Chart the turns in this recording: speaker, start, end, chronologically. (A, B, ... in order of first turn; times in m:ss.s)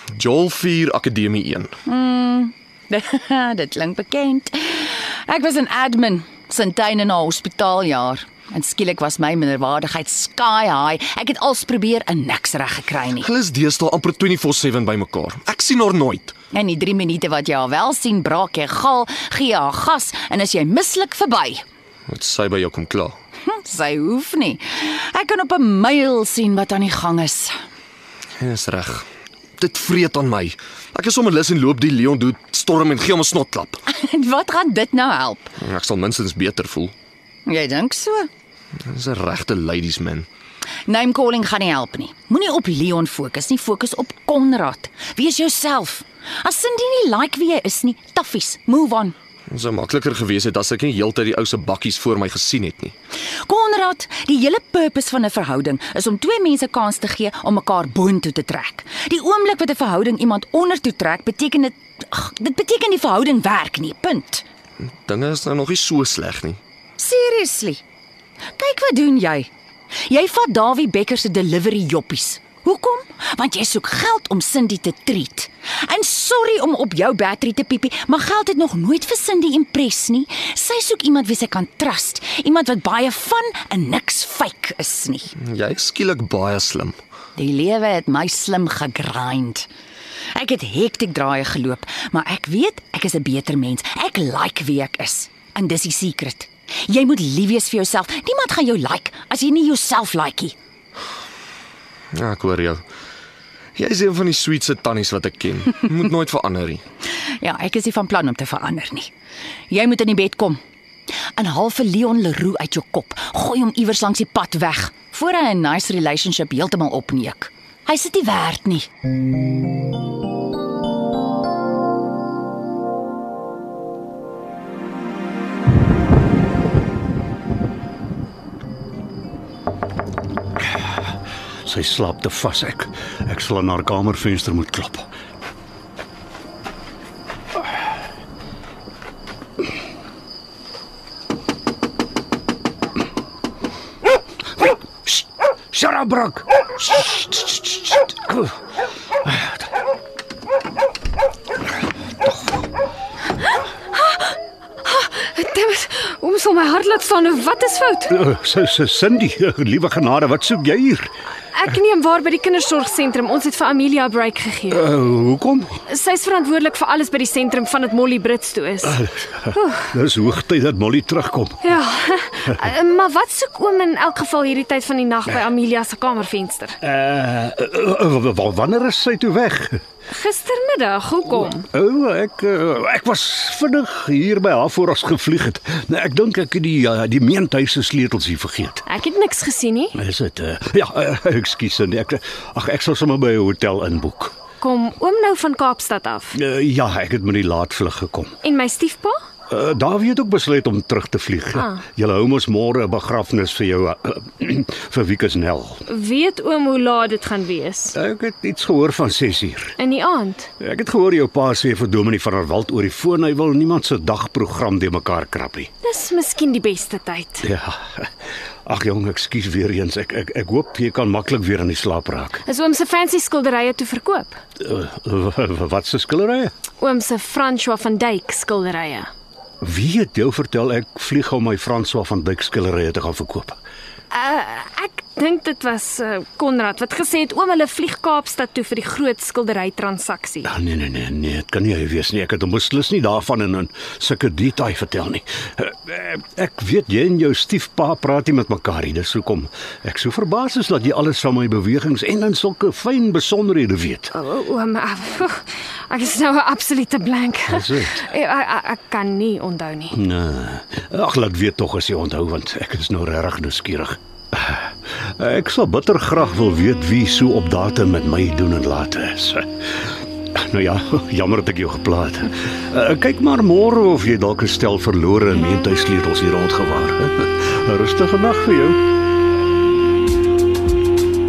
0:00.2-0:01.7 A
0:01.8-0:13.3 B
0:13.3-0:16.3 A
0:16.5-0:21.6 B
0:22.1-0:23.1 A
0:23.5-0:27.6 B
0:28.4-0:29.0 A
0:29.6-0:33.8 A
0:33.9-0:35.5 B
0:35.6-0:36.9 A
0:37.5-0:38.3 B
0:38.9-0:40.3 A
0:40.9-0:49.1 B
0:49.5-0:52.9 A
0:53.4-1:04.4 B
1:05.0-1:06.6 A
1:07.0-1:07.8 B
1:08.6-1:09.5 B
1:10.1-1:25.3 B
1:25.5-1:26.9 A
1:27.4-1:29.7 B
1:30.3-1:40.5 B
1:42.2-1:42.8 A
1:43.8-1:46.8 A
1:47.4-1:49.1 B
1:49.7-1:50.6 B
1:51.4-1:58.9 B
2:11.6-2:15.1 C
2:25.7-2:28.5 C
2:29.2-2:29.5 C
2:33.5-2:38.2 D
2:38.1-2:41.1 C
2:41.5-2:44.9 D
2:44.7-2:45.8 C
2:45.9-2:49.9 D
2:48.8-2:51.6 C
2:51.6-2:56.8 D
2:56.8-2:59.8 C
3:00.1-3:01.7 D
3:01.4-3:08.8 C
3:08.8-3:10.0 D
3:09.9-3:14.3 C
3:14.6-3:16.4 D
3:16.3-3:18.4 C
3:18.4-3:19.2 D
3:19.5-3:25.8 C
3:21.6-3:21.8 D
3:25.9-3:27.9 D
3:27.9-3:29.8 C
3:29.8-3:30.5 D
3:30.6-3:35.7 C
3:35.8-3:37.5 D
3:37.4-3:38.1 C
3:38.6-3:42.4 C
3:42.4-3:44.4 D
3:44.6-3:46.5 C
3:46.8-3:49.1 D
3:49.6-3:53.6 C
3:54.1-4:00.5 D
4:00.4-4:14.1 C
4:14.1-4:20.0 D
4:17.5-4:18.0 C
4:19.9-4:29.5 C
4:30.3-4:38.8 C